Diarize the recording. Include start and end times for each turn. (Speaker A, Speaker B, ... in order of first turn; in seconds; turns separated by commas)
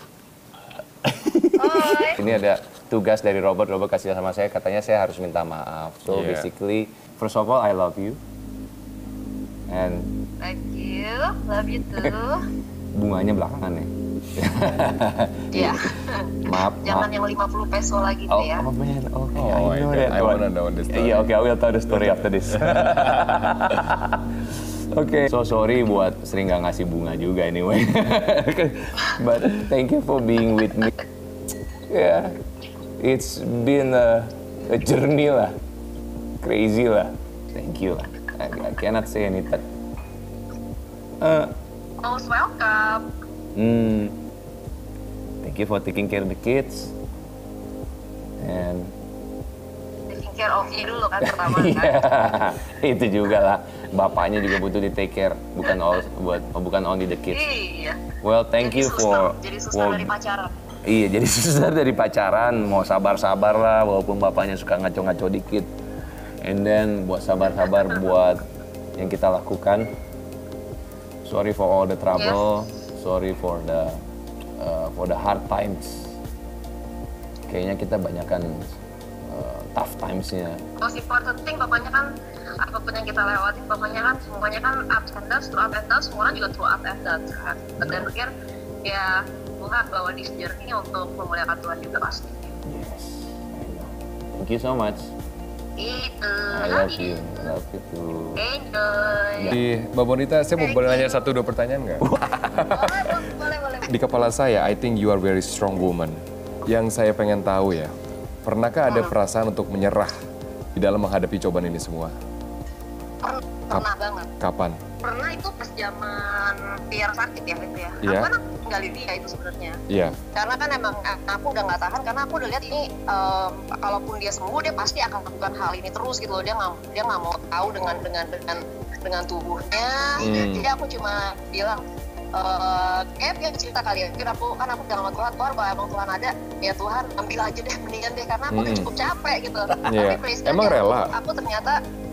Speaker A: 1.0-8.2, Speaker B: 1.6-2.2, Speaker C: 6.1-6.5, Speaker A: 9.7-10.2, Speaker B: 10.4-12.4, Speaker A: 12.9-17.1, Speaker B: 15.5-18.6, Speaker A: 18.3-24.2, Speaker C: 19.3-21.3, Speaker C: 22.1-23.6, Speaker A: 24.9-30.9, Speaker A: 31.9-32.4, Speaker A: 33.0-35.6, Speaker A: 36.4-39.6, Speaker A: 41.2-41.5, Speaker B: 42.0-43.1, Speaker A: 43.5-44.1, Speaker A: 45.4-46.9, Speaker A: 48.4-48.9, Speaker B: 50.1-52.0, Speaker A: 51.2-57.5, Speaker B: 57.3-58.1, Speaker A: 58.2-60.1, Speaker B: 58.6-60.5, Speaker A: 60.8-65.7, Speaker A: 66.4-68.4, Speaker A: 69.0-69.9, Speaker A: 71.2-74.0, Speaker B: 72.2-72.4, Speaker A: 74.6-76.2, Speaker A: 77.5-80.6, Speaker B: 80.8-88.3, Speaker A: 87.8-88.1, Speaker B: 88.8-92.6, Speaker A: 92.7-95.1, Speaker B: 95.8-97.4, Speaker A: 96.5-98.4, Speaker B: 98.4-99.5, Speaker C: 99.5-102.0, Speaker B: 100.6-101.2, Speaker A: 102.0-102.8, Speaker B: 102.5-103.9, Speaker C: 103.9-107.9, Speaker C: 108.4-110.1, Speaker C: 110.7-112.1, Speaker B: 113.2-114.3, Speaker C: 114.4-114.8, Speaker B: 115.0-119.8, Speaker C: 118.0-118.3, Speaker C: 119.9-120.2, Speaker B: 120.3-131.8, Speaker C: 130.2-130.7, Speaker B: 132.3-141.8, Speaker C: 138.5-138.9, Speaker C: 139.8-141.1